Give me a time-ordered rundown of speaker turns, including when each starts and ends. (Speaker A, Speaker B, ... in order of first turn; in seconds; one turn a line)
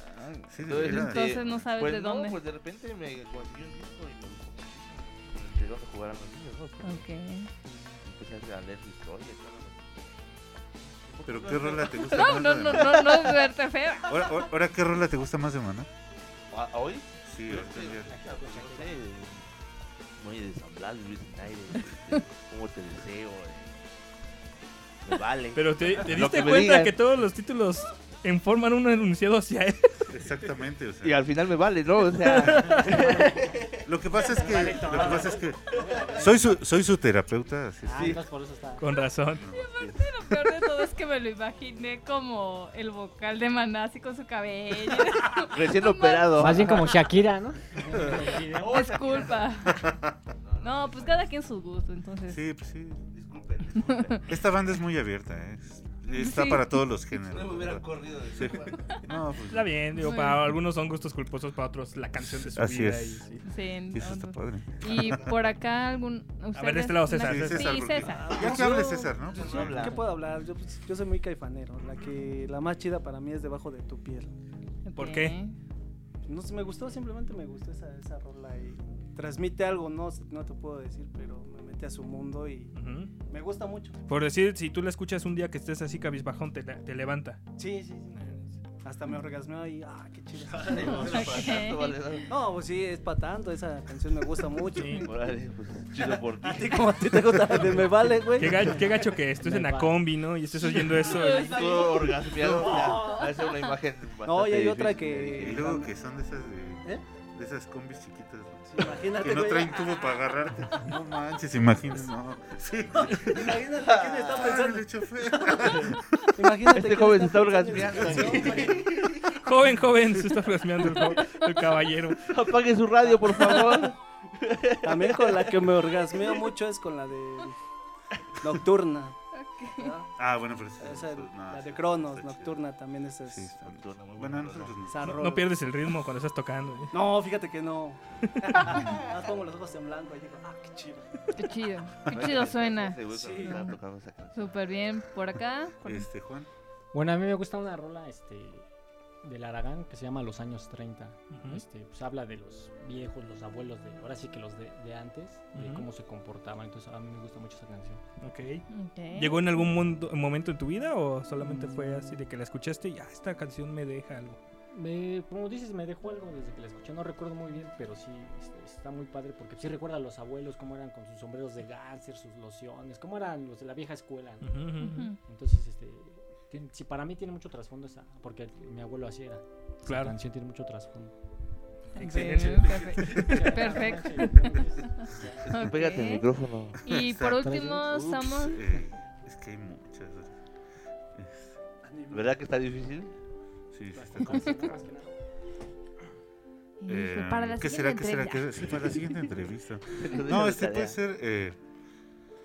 Speaker A: 0.3-1.7
Speaker B: 0.5-7.0
Speaker C: 0.8-2.4
Speaker C: 6.8-7.5
Speaker B: 7.7-10.2
Speaker B: 11.0-13.3
Speaker A: 11.3-13.2
Speaker C: 12.1-14.1
Speaker A: 14.1-15.9
Speaker B: 16.5-19.5
Speaker A: 17.3-18.2
Speaker D: 18.1-18.9
Speaker B: 20.2-23.9
Speaker B: 25.0-26.9
Speaker E: 25.6-30.0
Speaker A: 30.1-31.2
Speaker B: 31.0-33.8
Speaker D: 32.2-33.5
Speaker A: 33.9-35.6
Speaker D: 34.2-36.3
Speaker B: 35.7-36.2
Speaker A: 36.2-38.2
Speaker D: 37.9-38.8
Speaker B: 37.9-38.2
Speaker E: 38.8-39.4
Speaker A: 39.4-39.7
Speaker C: 39.5-46.5
Speaker B: 39.8-40.1
Speaker B: 45.4-47.1
Speaker D: 46.3-48.8
Speaker B: 47.9-49.5
Speaker C: 48.6-49.8
Speaker A: 49.7-50.1
Speaker B: 50.4-51.3
Speaker C: 50.6-52.4
Speaker A: 52.3-53.1
Speaker B: 53.1-54.3
Speaker C: 53.8-54.2
Speaker A: 54.3-59.8
Speaker C: 56.2-56.8
Speaker B: 57.3-59.0
Speaker E: 59.5-63.4
Speaker C: 60.0-60.4
Speaker A: 62.2-63.2
Speaker C: 63.5-68.4
Speaker A: 63.9-65.3
Speaker E: 66.5-67.8
Speaker A: 67.2-70.0
Speaker F: 68.1-74.3
Speaker B: 68.3-70.1
Speaker C: 74.8-75.6
Speaker E: 75.0-75.4
Speaker F: 76.3-82.7
Speaker E: 82.8-83.1
Speaker F: 83.3-84.0
Speaker E: 84.1-87.4
Speaker F: 87.6-91.4
Speaker E: 88.2-88.5
Speaker B: 90.5-92.3
Speaker C: 91.0-92.0
Speaker F: 92.3-95.3
Speaker E: 94.8-95.1
Speaker B: 94.9-97.3
Speaker F: 96.0-98.8
Speaker E: 98.4-101.6
Speaker D: 99.4-100.0
Speaker C: 101.1-101.7
Speaker F: 101.3-103.3
Speaker B: 101.4-105.6
Speaker F: 104.2-105.9
Speaker A: 105.4-113.6
Speaker F: 108.7-109.9
Speaker F: 113.0-115.6
Speaker B: 113.8-114.5
Speaker A: 114.3-116.3
Speaker F: 116.4-119.1
Speaker B: 116.7-119.4
Speaker A: 117.7-118.7
Speaker E: 119.3-122.3
Speaker B: 122.3-125.6
Speaker F: 123.0-123.9
Speaker F: 124.8-127.6
Speaker F: 128.4-129.2
Speaker C: 129.3-129.9
Speaker F: 129.8-130.1
Speaker A: 130.2-132.6
Speaker F: 130.8-133.5
Speaker A: 133.3-135.2
Speaker B: 133.6-134.8
Speaker F: 134.9-135.5
Speaker E: 135.0-136.9
Speaker F: 136.9-141.2
Speaker B: 138.7-139.1
Speaker C: 141.3-143.8
Speaker B: 142.1-144.6
Speaker F: 143.1-143.8
Speaker C: 144.3-146.1
Speaker A: 145.8-146.5
Speaker D: 146.9-148.7
Speaker D: 149.2-158.0
Speaker E: 151.3-151.6
Speaker E: 155.6-155.9
Speaker E: 158.2-164.4
Speaker C: 158.7-159.4
Speaker D: 161.4-162.2
Speaker D: 164.7-181.1
Speaker E: 174.4-175.1
Speaker C: 174.8-175.2
Speaker E: 179.9-180.1
Speaker C: 181.9-184.6
Speaker A: 182.0-183.5
Speaker D: 182.4-185.5
Speaker B: 185.4-186.8
Speaker C: 185.5-186.3
Speaker C: 186.8-188.6
Speaker A: 186.8-190.4
Speaker D: 187.2-187.8
Speaker A: 191.2-191.6
Speaker F: 191.8-192.4
Speaker B: 192.1-193.1
Speaker A: 193.7-194.6
Speaker D: 193.9-195.1
Speaker C: 196.8-198.5
Speaker A: 196.9-201.6
Speaker B: 198.7-199.0
Speaker B: 199.9-201.0